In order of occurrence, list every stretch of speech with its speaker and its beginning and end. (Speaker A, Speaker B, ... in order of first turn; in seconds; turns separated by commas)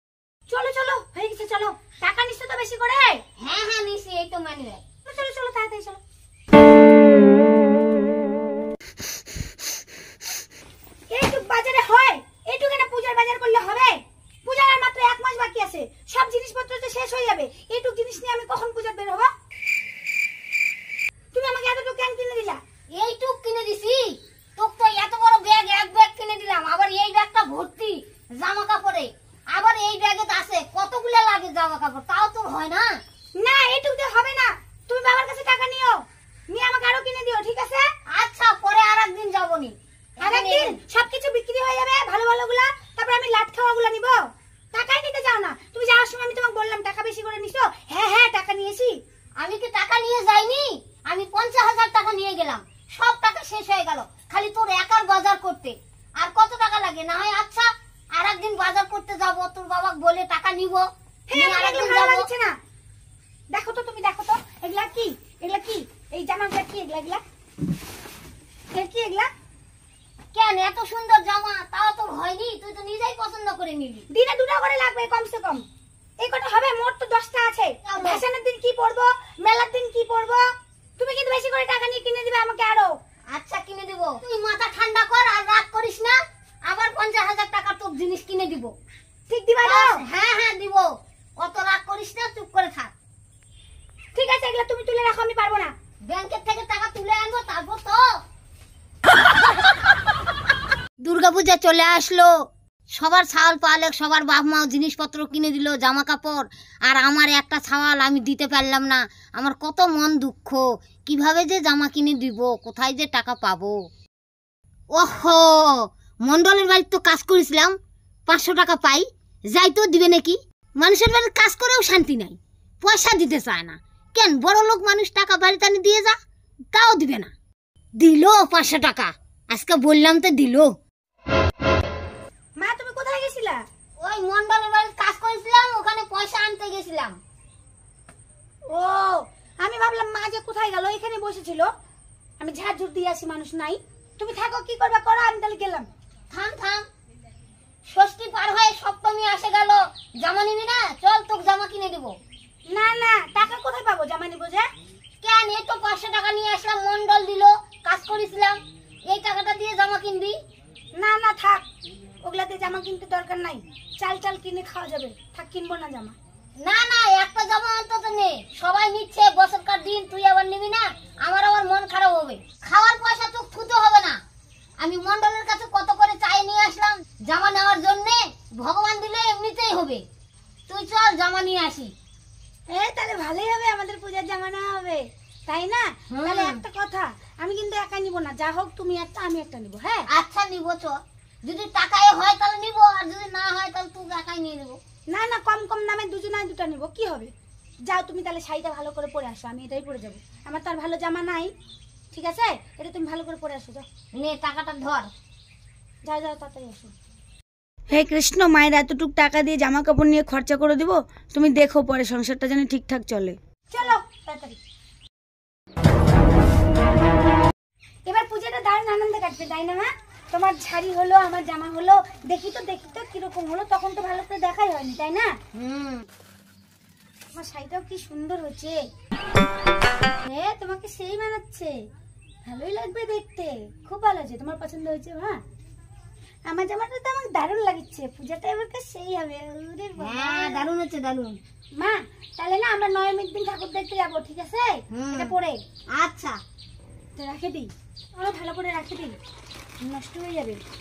Speaker A: 0.5-3.2, Speaker B: 3.4-4.8, Speaker A: 5.1-6.0, Speaker A: 11.1-19.3, Speaker A: 21.3-22.6, Speaker B: 22.9-32.9, Speaker A: 33.4-36.0, Speaker A: 36.5-37.9, Speaker B: 38.1-40.8, Speaker A: 40.2-48.9, Speaker B: 49.4-62.3, Speaker A: 61.3-62.5, Speaker A: 63.5-67.2, Speaker A: 68.7-69.3, Speaker B: 70.3-74.0, Speaker A: 74.1-75.7, Speaker A: 76.2-80.5, Speaker B: 77.8-78.2, Speaker A: 81.0-82.9, Speaker B: 83.3-88.7, Speaker A: 89.3-90.0, Speaker B: 89.6-92.9, Speaker A: 94.2-95.7, Speaker B: 96.1-98.1, Speaker B: 101.0-102.3, Speaker B: 102.9-113.8, Speaker B: 114.9-115.5, Speaker B: 116.2-117.8, Speaker B: 118.3-126.2, Speaker B: 126.7-127.3, Speaker B: 128.0-130.7, Speaker A: 132.6-133.6, Speaker B: 134.0-137.2, Speaker A: 138.7-141.7, Speaker A: 142.4-145.9, Speaker B: 146.3-146.9, Speaker B: 147.9-152.2, Speaker A: 152.7-154.7, Speaker B: 155.2-160.4, Speaker A: 161.0-161.6, Speaker A: 162.2-166.2, Speaker B: 166.6-174.2, Speaker B: 174.8-180.0, Speaker B: 180.7-181.9, Speaker A: 182.7-190.1, Speaker B: 186.1-186.6, Speaker B: 190.1-194.8, Speaker A: 195.1-197.3, Speaker A: 197.9-201.5, Speaker A: 202.1-203.9, Speaker B: 204.1-205.1, Speaker A: 206.1-206.9, Speaker A: 207.9-214.6, Speaker A: 218.1-225.3, Speaker B: 225.5-226.1, Speaker A: 227.3-228.8, Speaker A: 230.2-231.7, Speaker A: 232.5-235.4, Speaker A: 236.5-240.7, Speaker B: 240.0-241.4, Speaker A: 241.8-245.6, Speaker B: 244.9-245.3, Speaker B: 246.0-246.4, Speaker A: 247.2-249.2, Speaker A: 249.8-250.6